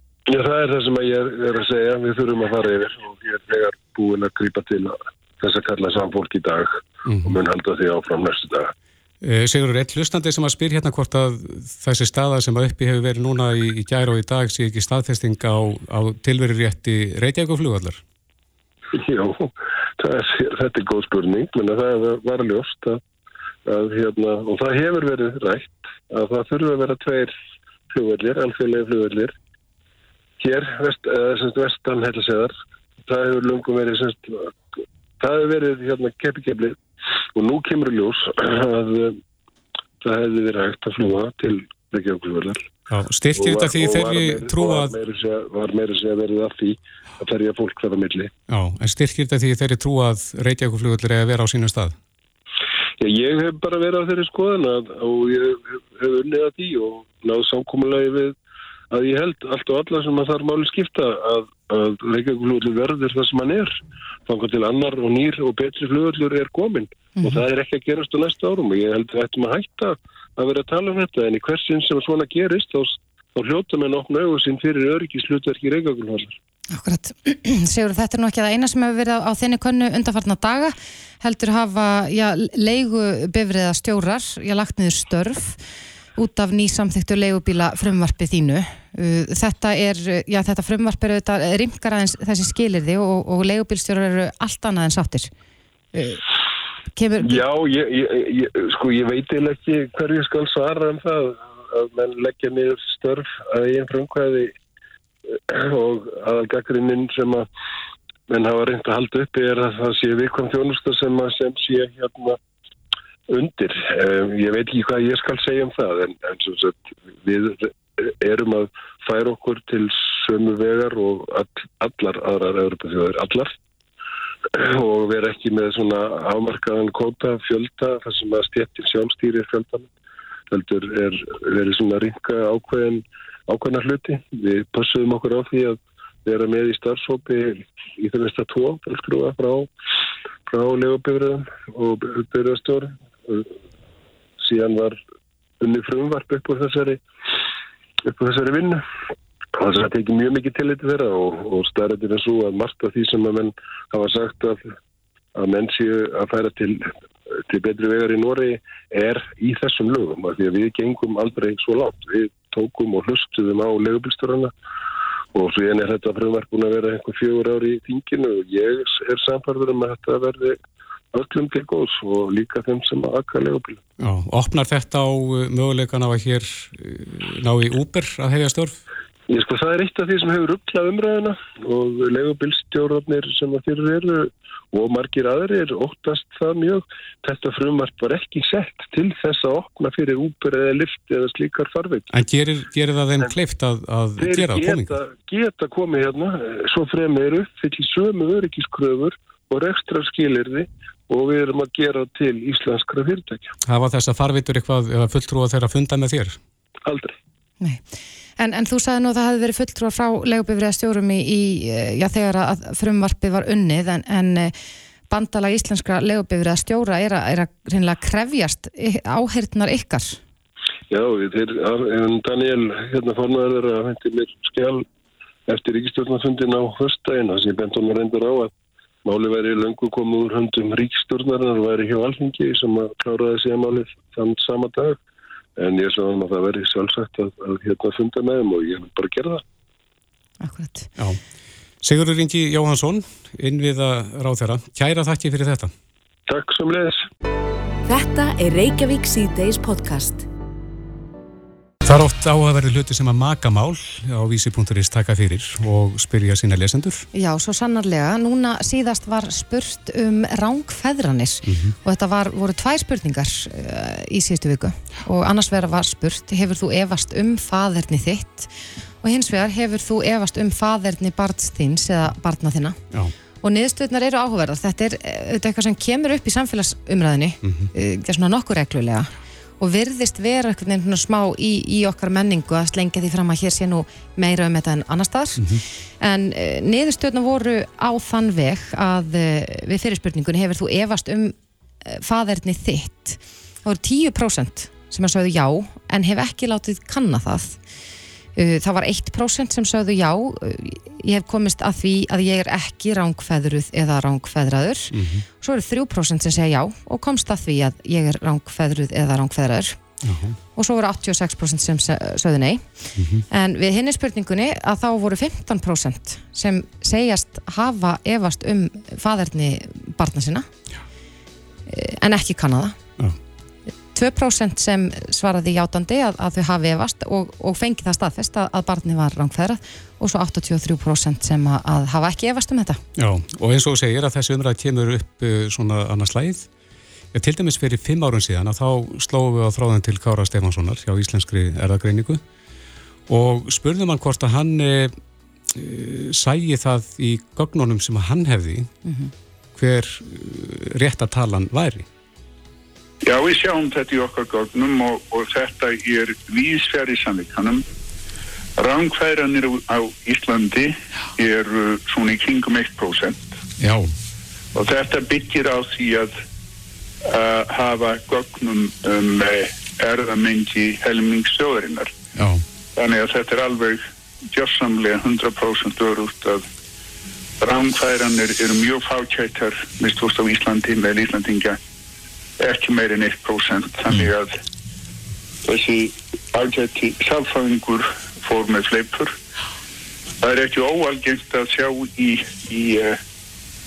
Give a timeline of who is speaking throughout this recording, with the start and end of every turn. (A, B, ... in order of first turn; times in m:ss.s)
0:00.3-0:08.7 A
0:07.1-0:07.4 B
0:09.2-0:18.0 B
0:18.9-0:23.0 A
0:23.6-0:27.3 A
0:27.9-0:29.3 A
0:30.4-0:32.5 A
0:33.0-0:34.5 A
0:35.2-0:36.8 A
0:37.3-0:39.2 A
0:40.0-0:42.6 A
0:42.9-0:45.0 B
0:43.3-0:48.3 A
0:48.5-0:52.0 B
0:53.0-0:58.3 A
0:58.9-1:16.4 A
1:16.7-1:25.6 C
1:26.2-1:35.3 C
1:35.9-1:36.2 C
1:36.9-1:37.4 C
1:37.2-1:44.5 A
1:45.5-1:47.5 A
1:48.3-1:52.4 A
1:53.3-2:03.5 A
2:04.5-2:09.9 A
2:10.5-2:19.7 A
2:20.5-2:23.5 A
2:24.4-2:25.0 A
2:25.6-2:27.0 A
2:28.0-2:28.8 A
2:29.6-2:34.6 A
2:35.4-2:36.9 A
2:37.5-2:44.5 A
2:45.3-2:50.6 A
2:51.1-2:53.8 A
2:54.0-2:58.8 B
2:59.3-3:12.1 A
3:12.1-3:15.0 B
3:14.2-3:23.5 A
3:23.6-3:26.4 B
3:26.8-3:27.1 A
3:28.4-3:34.5 C
3:35.1-3:40.2 C
3:40.9-3:44.8 A
3:45.5-3:48.5 A
3:49.0-3:55.0 A
3:55.6-3:59.4 A
4:00.4-4:00.9 C
4:01.8-4:05.7 B
4:06.3-4:07.0 A
4:07.8-4:10.2 D
4:11.8-4:17.1 B
4:17.1-4:28.5 C
4:21.4-4:21.7 B
4:29.0-4:32.8 C
4:33.4-4:45.4 C
4:37.4-4:37.7 B
4:45.4-4:45.6 B
4:46.0-4:57.6 C
4:58.3-5:09.8 C
5:04.9-5:05.2 B
5:10.0-5:10.4 B
5:10.5-5:12.7 C
5:13.0-5:13.2 B
5:13.3-5:20.5 C
5:21.7-5:22.8 C
5:23.9-5:32.8 C
5:33.0-5:36.5 B
5:37.1-5:42.2 B
5:43.1-5:45.0 B
5:45.5-5:48.7 B
5:48.8-5:49.1 C
5:49.5-5:51.9 B
5:53.0-5:57.6 E
5:58.6-6:03.3 E
6:03.6-6:03.9 B
6:04.5-6:06.1 E
6:07.0-6:11.9 E
6:12.2-6:12.4 B
6:12.8-6:16.4 E
6:17.4-6:21.6 E
6:22.4-6:24.4 E
6:25.4-6:29.1 E
6:30.2-6:33.0 E